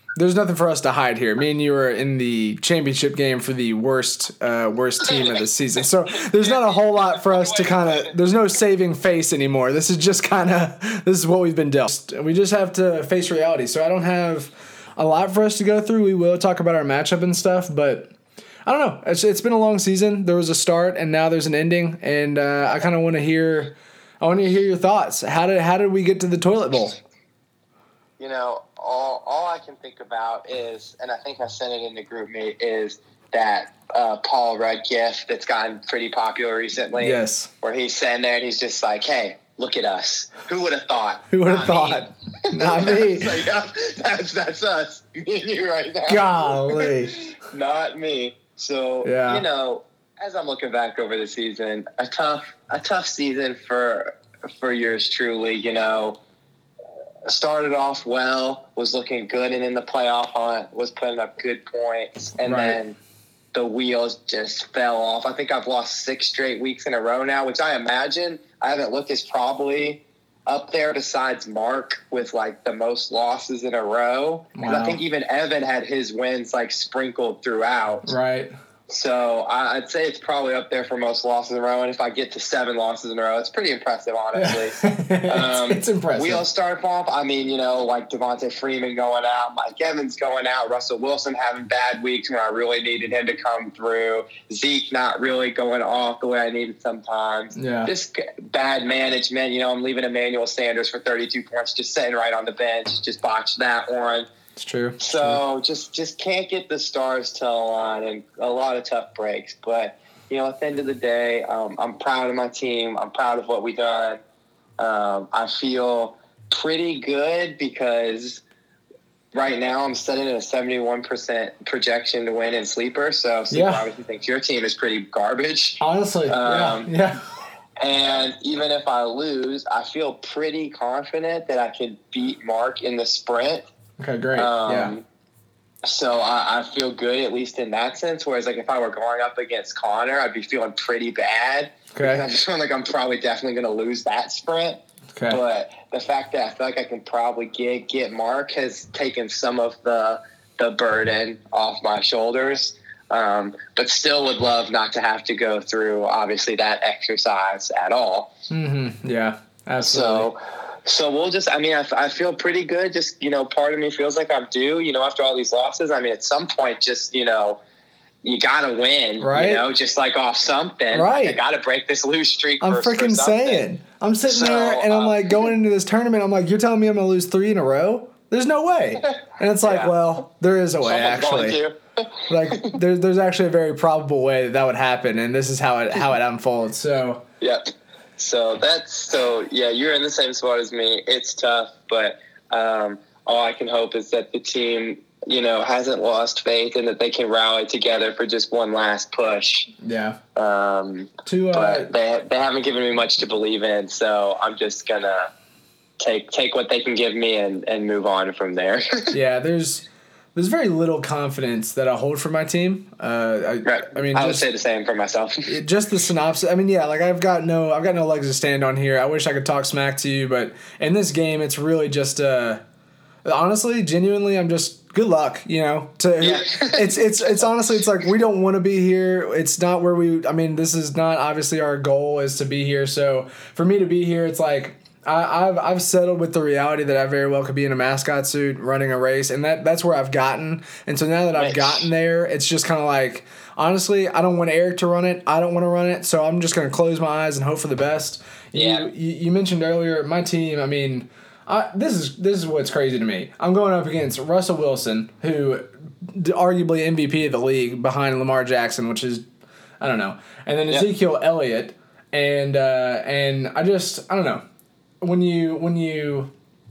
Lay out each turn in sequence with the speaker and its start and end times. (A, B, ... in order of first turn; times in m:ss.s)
0:00.2-0:18.1 A
0:06.2-0:08.2 B
0:18.7-0:27.0 A
0:28.2-0:56.2 B
0:37.0-0:37.5 A
0:41.3-0:43.4 A
0:46.1-0:47.2 A
0:49.0-0:49.5 A
0:57.2-1:03.0 B
1:02.4-1:02.8 A
1:03.5-1:18.1 B
1:14.6-1:15.0 A
1:18.0-1:18.5 A
1:18.9-1:24.8 B
1:24.3-1:26.4 A
1:25.3-1:44.3 B
1:37.6-1:37.9 A
1:44.6-1:45.4 A
1:45.0-1:54.2 B
1:54.8-1:58.4 B
1:59.3-2:06.9 B
2:03.5-2:03.9 A
2:05.8-2:07.2 A
2:07.8-2:13.6 B
2:14.0-2:15.0 A
2:14.4-2:15.0 B
2:15.8-2:38.3 B
2:22.0-2:22.3 A
2:25.2-2:25.4 A
2:38.5-2:40.3 A
2:39.8-2:47.6 B
2:48.2-2:53.6 B
2:49.2-2:49.7 A
2:50.9-2:51.4 A
2:52.6-3:01.6 A
2:54.3-2:55.3 B
2:59.0-2:59.9 B
3:00.8-3:02.8 B
3:02.3-3:07.2 A
3:07.4-3:19.7 B
3:19.8-3:20.2 A
3:20.4-3:25.3 B
3:21.3-3:21.9 A
3:26.0-3:29.2 B
3:29.1-3:34.5 A
3:33.6-3:35.5 B
3:35.5-3:42.6 A
3:43.2-4:19.3 A
3:46.2-3:47.4 B
4:01.3-4:01.8 B
4:08.5-4:08.9 B
4:19.8-4:24.4 A
4:25.0-4:26.3 A